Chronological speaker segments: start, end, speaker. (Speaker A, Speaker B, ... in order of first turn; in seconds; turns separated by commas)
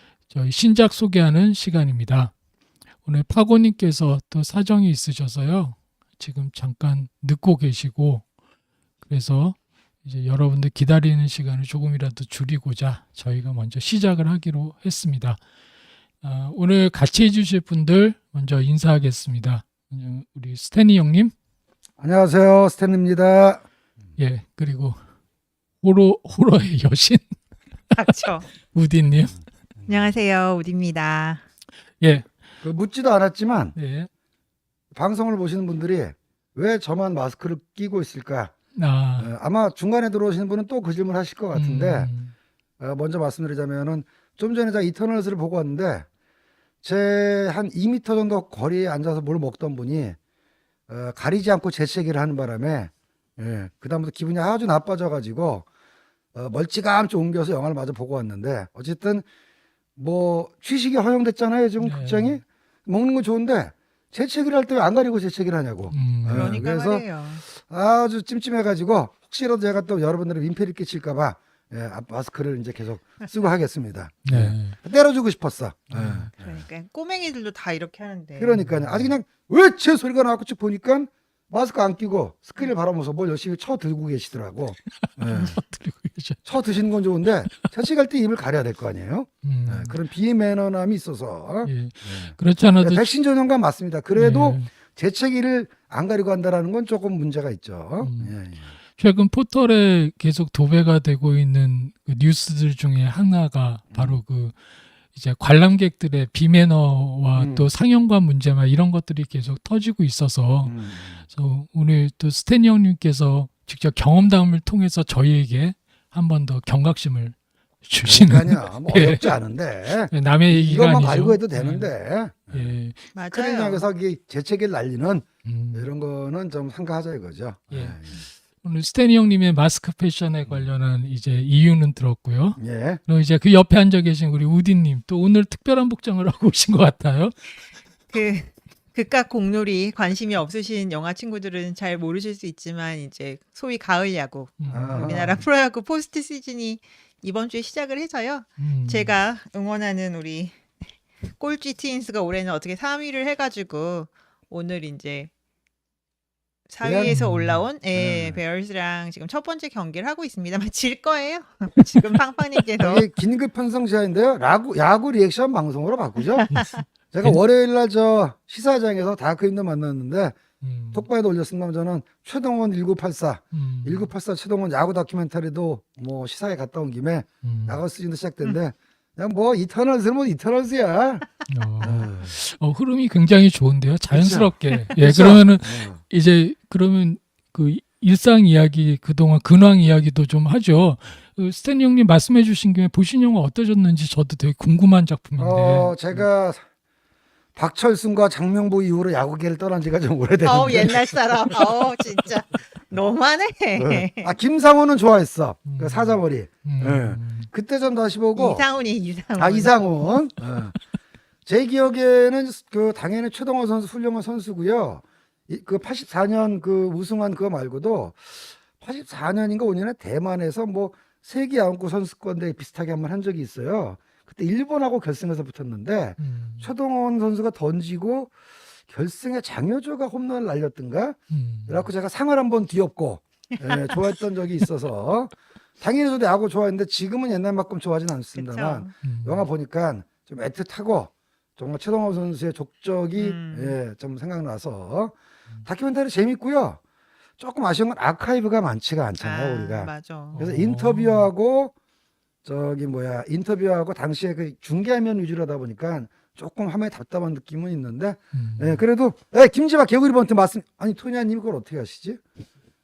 Speaker A: 0.3-2.3, Speaker A: 3.0-8.2, Speaker A: 9.0-15.4, Speaker A: 16.2-21.3, Speaker B: 22.0-23.6, Speaker A: 24.2-25.0, Speaker A: 25.8-27.4, Speaker C: 27.9-28.4, Speaker A: 28.7-29.4, Speaker B: 29.8-30.1, Speaker C: 29.9-31.4, Speaker A: 32.0-32.3, Speaker B: 32.6-33.7, Speaker A: 33.7-34.1, Speaker B: 34.9-38.5, Speaker A: 38.7-39.3, Speaker B: 39.2-42.1, Speaker A: 41.5-42.3, Speaker B: 42.8-46.1, Speaker B: 46.8-50.2, Speaker B: 50.9-55.7, Speaker B: 56.3-59.2, Speaker B: 60.0-76.6, Speaker A: 61.8-62.4, Speaker A: 65.9-66.5, Speaker C: 66.3-67.4, Speaker A: 74.2-74.8, Speaker A: 75.9-76.3, Speaker C: 76.4-78.6, Speaker B: 78.4-85.6, Speaker A: 78.7-79.0, Speaker A: 85.0-86.4, Speaker B: 86.4-98.7, Speaker A: 89.4-90.0, Speaker A: 91.7-93.0, Speaker A: 94.1-94.7, Speaker A: 98.0-98.3, Speaker A: 99.0-104.6, Speaker B: 103.9-104.2, Speaker A: 105.1-110.8, Speaker B: 107.3-107.7, Speaker B: 110.6-111.2, Speaker A: 111.3-119.4, Speaker B: 118.0-122.7, Speaker A: 120.1-121.9, Speaker A: 122.5-123.0, Speaker C: 123.1-123.8, Speaker B: 123.3-128.2, Speaker A: 125.4-125.9, Speaker A: 127.7-128.0, Speaker A: 128.6-137.3, Speaker B: 132.6-133.0, Speaker C: 138.1-150.6, Speaker A: 144.6-145.3, Speaker B: 144.7-145.4, Speaker A: 148.6-149.1, Speaker C: 151.4-155.3, Speaker C: 156.7-163.1, Speaker B: 156.8-157.1, Speaker A: 157.1-157.6, Speaker B: 157.9-158.4, Speaker B: 162.8-166.5, Speaker C: 166.3-166.8, Speaker A: 166.5-167.4, Speaker B: 167.1-170.4, Speaker A: 170.6-171.1, Speaker B: 170.9-181.3, Speaker A: 173.5-174.1, Speaker A: 177.4-177.8, Speaker A: 181.5-196.1, Speaker B: 181.8-182.3, Speaker B: 184.1-186.0, Speaker B: 195.4-196.6, Speaker B: 197.5-201.7, Speaker C: 200.4-204.3, Speaker B: 203.8-208.6, Speaker A: 205.7-207.5, Speaker C: 208.3-209.9, Speaker B: 209.4-210.7, Speaker B: 211.4-228.3, Speaker A: 226.2-226.7, Speaker B: 228.9-246.8, Speaker A: 231.3-231.8, Speaker C: 233.5-234.1, Speaker C: 238.3-238.9, Speaker A: 239.0-239.4, Speaker C: 243.2-243.8, Speaker B: 247.4-251.7, Speaker C: 249.2-250.4, Speaker A: 250.3-251.3, Speaker B: 252.4-262.2, Speaker A: 258.3-258.8